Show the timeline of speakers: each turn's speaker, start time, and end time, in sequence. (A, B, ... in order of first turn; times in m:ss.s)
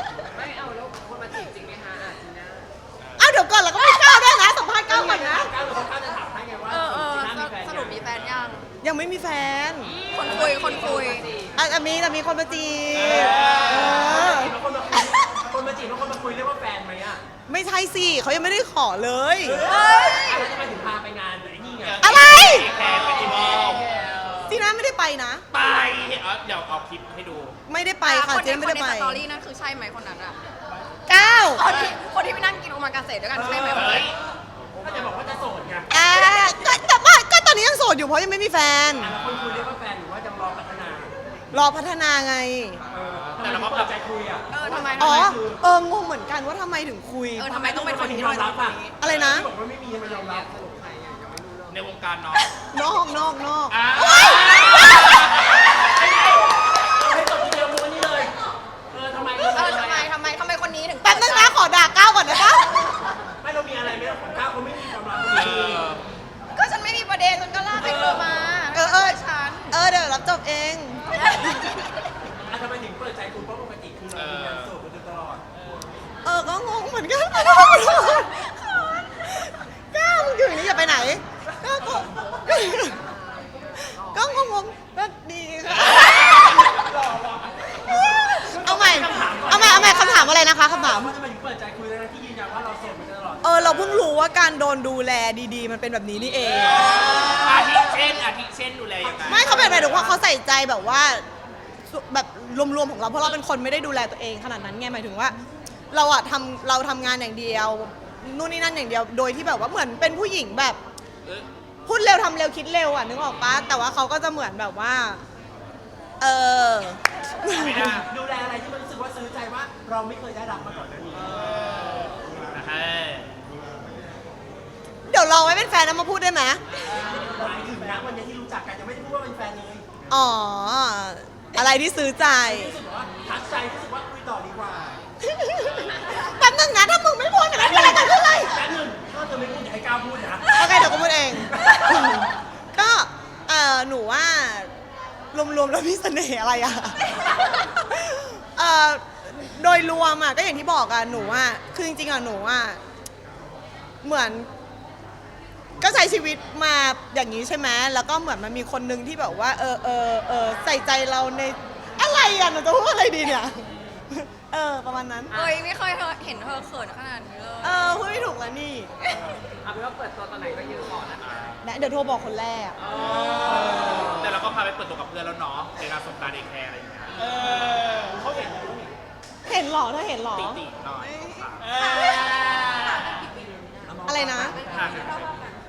0:00.3-0:02.7 A
0:03.0-0:03.3 B
0:03.2-0:05.5 C
0:03.8-0:04.4 D
0:04.9-0:08.0 E
0:06.7-0:08.7 D
0:08.8-0:10.0 C
0:09.8-0:11.6 A
0:10.1-0:11.2 D
0:10.2-0:11.4 E
0:11.6-0:14.6 C
0:13.0-0:13.9 B
0:13.1-0:17.2 E
0:17.5-0:19.6 C
0:19.4-0:23.8 E
0:19.7-0:20.5 D
0:21.8-0:24.5 B
0:22.0-0:22.7 C
0:24.5-0:25.4 C
0:25.5-0:27.6 B
0:27.7-0:29.2 C
0:28.0-0:30.4 D
0:31.1-0:31.6 C
0:31.5-0:34.1 D
0:33.3-0:34.1 E
0:33.7-0:34.2 B
0:34.8-0:35.9 E
0:35.9-0:39.2 C
0:36.0-0:36.8 D
0:39.0-0:41.1 E
0:41.5-0:42.8 C
0:42.9-0:45.6 E
0:43.1-0:43.9 B
0:44.5-0:45.4 D
0:44.9-0:48.0 C
0:47.4-0:49.0 D
0:47.5-0:50.6 E
0:49.0-0:49.5 C
0:50.0-0:51.9 A
0:51.7-0:52.5 B
0:52.7-0:54.5 C
0:53.7-0:56.0 B
0:54.5-0:58.4 E
0:58.9-1:00.1 E
0:59.4-1:01.6 D
1:01.0-1:02.7 C
1:02.4-1:02.8 D
1:03.4-1:06.0 E
1:05.3-1:06.0 B
1:06.5-1:09.7 D
1:07.8-1:08.3 E
1:08.7-1:11.9 C
1:11.1-1:11.9 D
1:12.4-1:15.5 E
1:14.1-1:14.7 B
1:16.2-1:18.4 C
1:17.6-1:19.3 D
1:19.2-1:23.0 C
1:22.6-1:24.5 A
1:24.0-1:26.7 C
1:26.8-1:34.0 E
1:27.8-1:31.1 C
1:28.0-1:28.4 D
1:33.4-1:37.1 C
1:36.7-1:40.0 B
1:39.0-1:40.2 E
1:39.3-1:41.2 C
1:41.9-1:45.4 C
1:45.9-1:50.8 C
1:51.9-1:55.2 C
1:56.2-1:58.0 C
1:57.5-2:01.9 E
1:57.6-1:58.1 B
2:01.9-2:03.3 B
2:05.1-2:06.6 C
2:06.8-2:09.9 E
2:10.1-2:12.8 C
2:12.4-2:15.0 E
2:15.2-2:18.7 C
2:17.5-2:22.3 E
2:20.5-2:24.7 C
2:25.3-2:32.8 C
2:27.1-2:27.7 E
2:34.0-2:34.5 C
2:35.8-2:45.4 C
2:45.3-2:45.6 A
2:45.3-2:48.1 D
2:47.6-2:48.9 C
2:49.0-2:49.5 D
2:49.6-2:51.6 A
2:51.2-2:51.6 B
2:51.6-2:52.8 C
2:52.8-2:54.1 A
2:53.4-2:54.2 E
2:54.0-2:57.2 B
2:57.2-2:59.0 E
2:59.5-3:00.6 C
3:00.3-3:01.7 B
3:01.9-3:03.0 D
3:03.8-3:05.3 E
3:04.1-3:04.6 C
3:04.6-3:05.2 B
3:04.9-3:05.5 D